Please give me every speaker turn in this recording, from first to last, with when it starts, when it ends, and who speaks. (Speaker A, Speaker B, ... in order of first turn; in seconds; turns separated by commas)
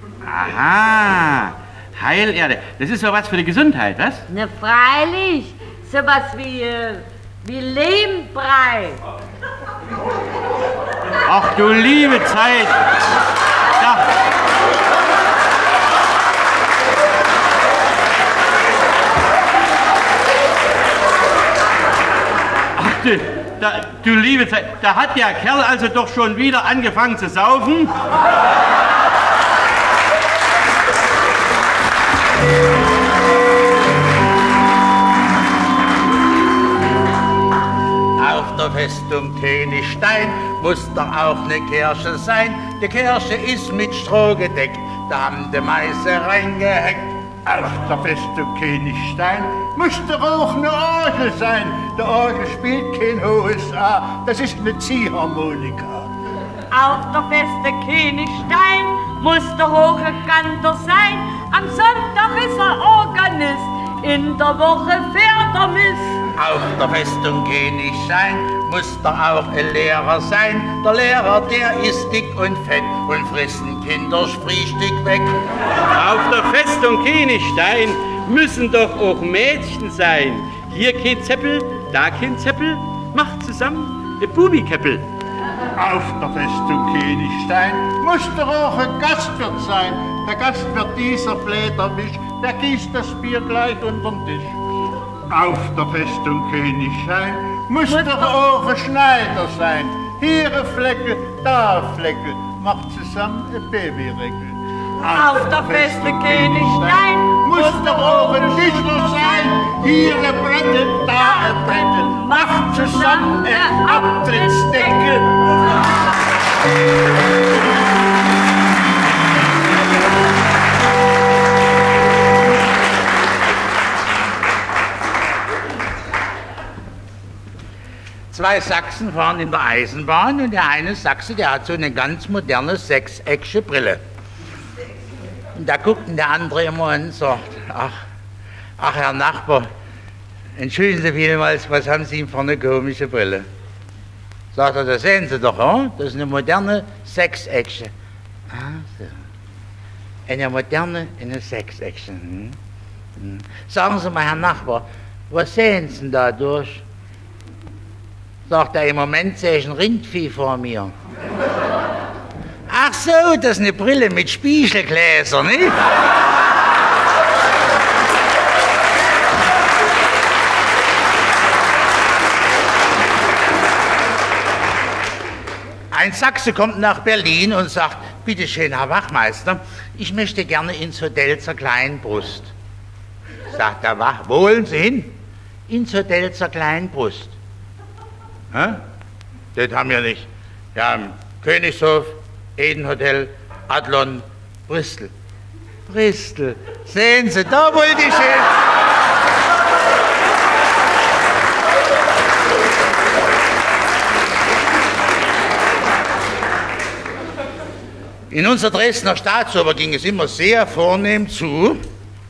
Speaker A: 0.2-4.2, Speaker B: 4.3-9.0, Speaker A: 11.2-12.8, Speaker A: 13.8-14.1, Speaker A: 22.8-27.9, Speaker C: 38.1-47.3, Speaker D: 47.4-56.1, Speaker B: 56.7-66.2, Speaker C: 66.3-75.4, Speaker A: 75.9-85.1, Speaker D: 85.8-94.6, Speaker D: 95.3-115.3, Speaker B: 97.9-98.4, Speaker B: 105.1-109.5, Speaker B: 111.1-115.0, Speaker C: 128.3-134.0, Speaker C: 135.5-138.0, Speaker C: 138.8-139.7, Speaker C: 140.6-143.5, Speaker C: 144.5-147.9, Speaker C: 148.5-149.2, Speaker C: 150.3-152.6, Speaker C: 153.2-156.8, Speaker C: 158.5-160.9, Speaker C: 162.7-165.8, Speaker C: 175.9-182.5, Speaker C: 183.5-185.1, Speaker C: 185.7-187.4, Speaker C: 188.5-188.8, Speaker C: 189.5-195.1, Speaker C: 195.9-198.6, Speaker C: 208.3-211.8